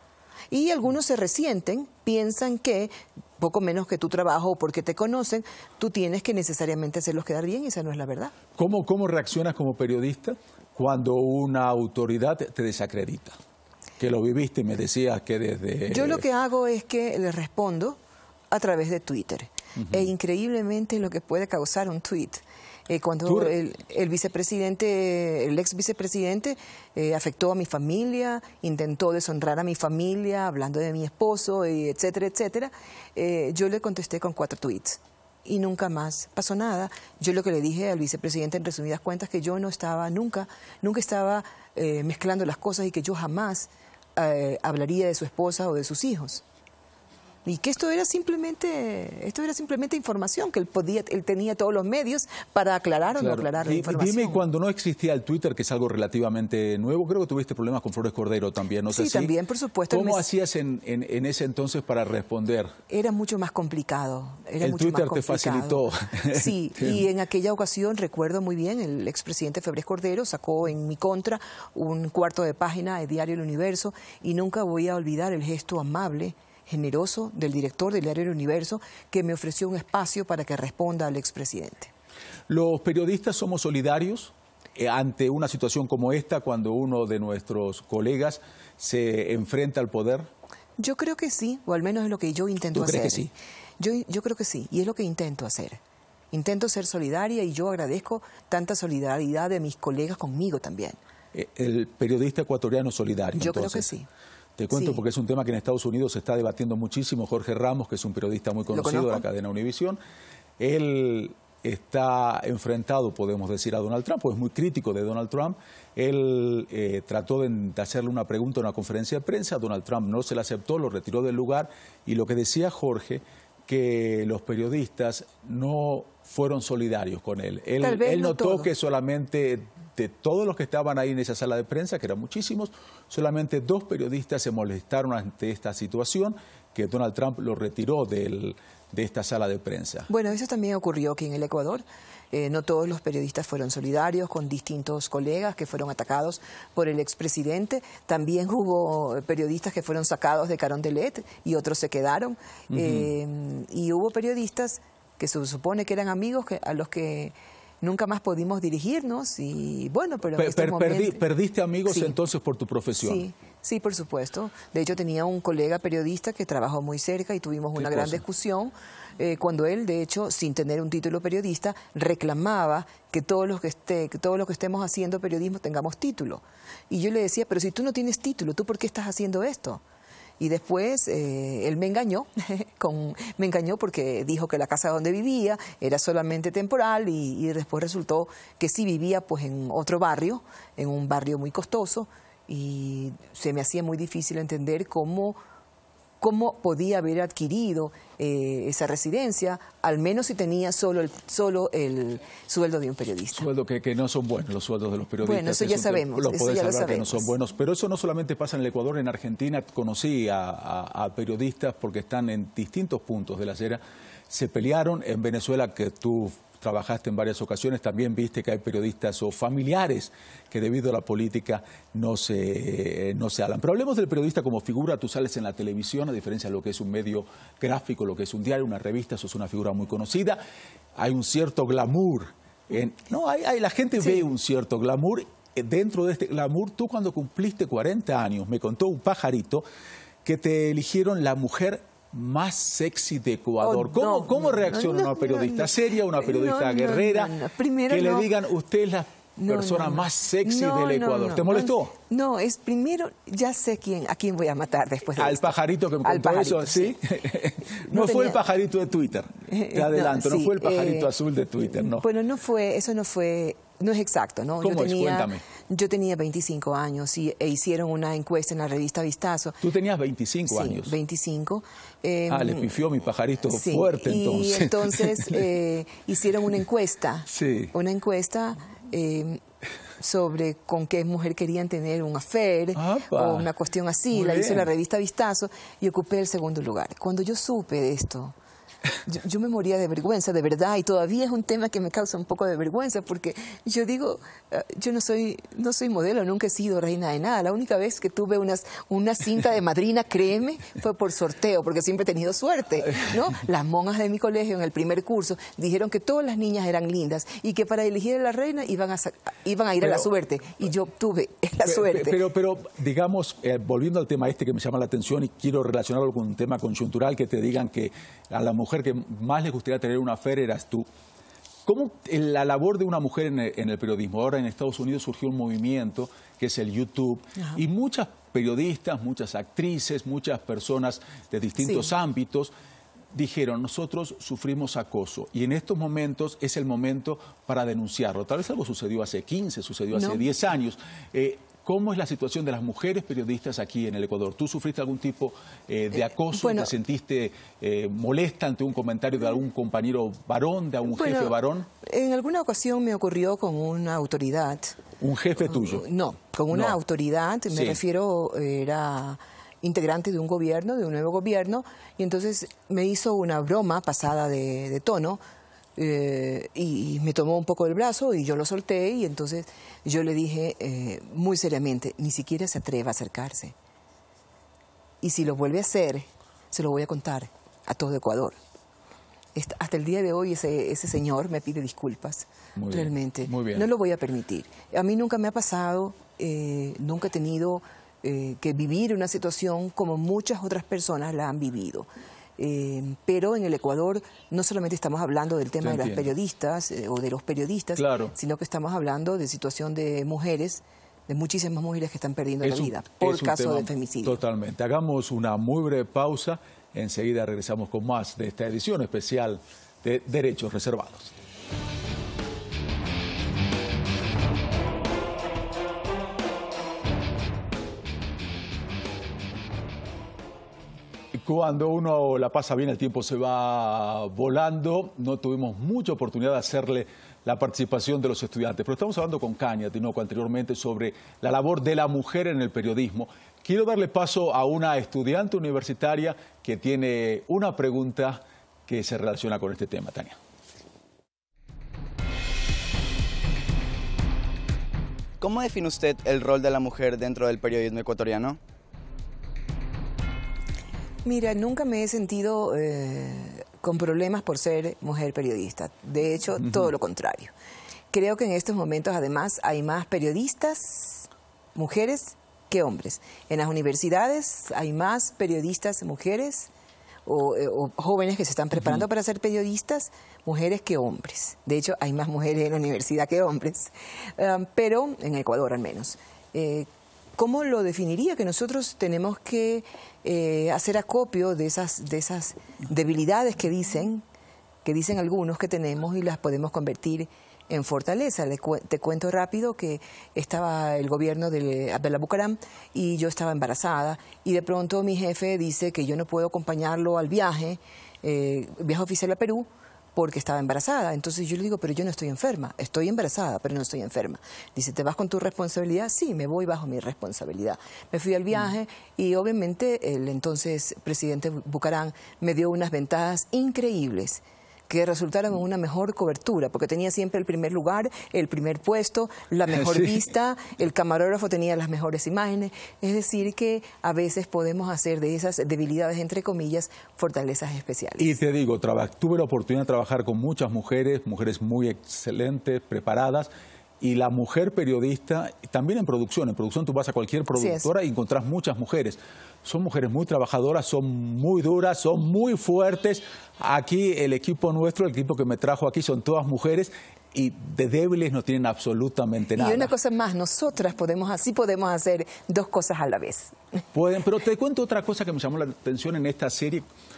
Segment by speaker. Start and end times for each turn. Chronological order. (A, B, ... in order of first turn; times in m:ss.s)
0:00.5-0:08.3 A
0:08.6-0:13.4 B
0:14.0-0:16.2 B
0:15.9-0:18.0 A
0:18.5-0:46.4 A
0:19.8-0:20.1 B
0:23.2-0:23.5 B
0:47.4-0:54.4 A
0:53.2-0:59.3 B
0:58.9-1:00.2 A
0:59.9-1:02.7 B
1:02.9-1:21.9 A
1:04.6-1:07.0 B
1:22.5-1:30.3 B
1:30.8-1:35.8 A
1:32.7-1:33.3 B
1:36.3-1:41.0 A
1:41.3-1:43.9 B
1:43.4-1:44.1 A
1:44.6-1:50.0 B
1:44.7-1:45.0 A
1:48.7-1:49.2 A
1:50.6-2:20.1 B
2:07.8-2:08.7 A
2:20.1-2:41.2 A
2:32.7-2:33.1 B
2:40.4-2:43.2 B
2:41.8-2:42.1 A
2:43.0-2:59.8 A
2:47.7-2:48.2 B
3:00.4-3:15.4 A
3:16.2-3:23.5 A
3:23.3-3:50.4 B
3:25.2-3:27.3 A
3:51.0-3:59.6 B
4:00.2-4:07.4 B
4:03.6-4:08.3 A
4:07.9-4:11.9 B
4:09.4-4:15.5 A
4:15.2-4:22.1 B
4:16.0-4:17.0 A
4:17.8-4:18.4 A
4:19.5-4:21.1 A
4:21.8-4:29.6 A
4:24.6-4:25.4 B
4:29.6-4:30.9 B
4:30.5-4:32.8 A
4:32.3-4:35.5 B
4:33.5-4:39.4 A
4:37.3-4:37.7 B
4:40.0-4:48.3 A
4:42.7-4:43.5 B
4:44.1-4:44.7 B
4:49.0-5:12.2 A
5:09.8-5:10.1 B
5:11.6-5:20.9 B
5:21.6-5:32.5 B
5:31.6-5:31.8 A
5:33.1-5:51.7 B
5:39.9-5:40.2 A
5:46.3-5:46.7 A
5:50.9-5:54.8 A
5:55.0-5:55.8 B
5:55.4-6:05.2 A
5:56.5-5:56.8 B
5:57.5-5:57.8 B
6:05.8-6:13.5 A
6:15.0-6:18.4 A
6:19.3-6:44.2 A
6:22.6-6:23.7 B
6:35.6-6:36.1 B
6:37.8-6:38.1 B
6:42.4-6:51.1 B
7:01.1-7:20.2 B
7:25.2-7:28.4 C
7:31.0-7:37.3 A
7:37.9-7:46.5 A
7:47.0-8:04.0 A
8:04.6-8:48.2 A
8:39.5-8:40.0 B
8:48.0-8:53.3 B
8:53.8-9:09.7 B
8:57.3-8:57.7 A
9:09.3-9:13.4 A
9:13.7-9:16.7 B